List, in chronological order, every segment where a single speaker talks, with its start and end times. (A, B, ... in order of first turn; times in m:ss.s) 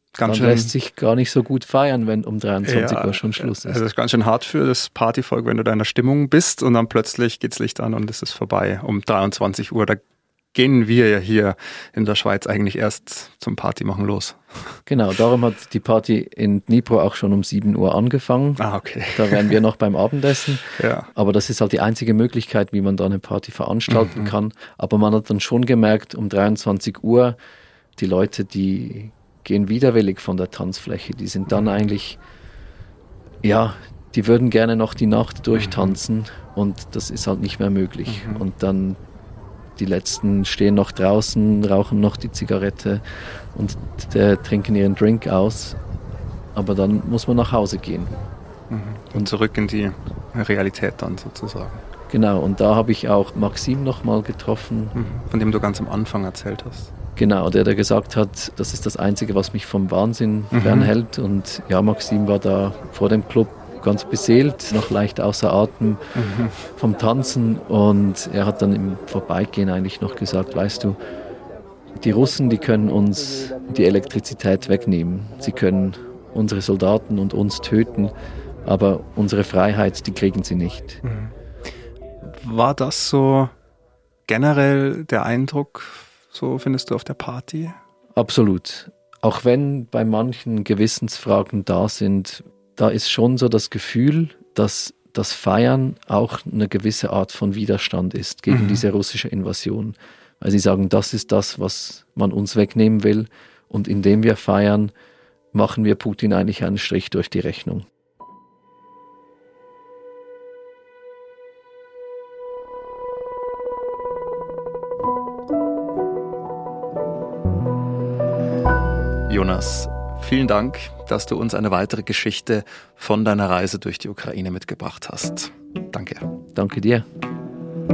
0:00.2-0:00.7 A
0:00.2-0:03.8 B
0:02.6-0:10.0 A
0:10.5-0:14.8 A
0:14.9-0:18.6 B
0:18.6-0:19.6 A
0:19.1-0:27.4 B
0:20.8-0:21.1 A
0:23.9-0:24.3 A
0:28.0-0:32.2 B
0:33.4-0:39.0 B
0:35.6-0:36.0 A
0:38.1-0:38.4 A
0:39.8-0:43.0 B
0:43.5-0:45.8 B
0:46.5-0:48.1 B
0:48.7-0:51.8 A
0:52.1-0:55.0 B
0:54.9-0:56.9 A
0:57.2-1:06.0 B
1:00.5-1:00.9 A
1:06.2-1:06.6 A
1:06.8-1:11.0 B
1:12.0-1:18.1 B
1:18.6-1:21.0 B
1:21.0-1:21.3 A
1:22.2-1:23.5 A
1:24.3-1:27.8 A
1:28.2-1:44.9 B
1:38.5-1:38.8 A
1:45.5-1:47.8 B
1:59.3-2:06.2 A
2:06.5-2:07.0 B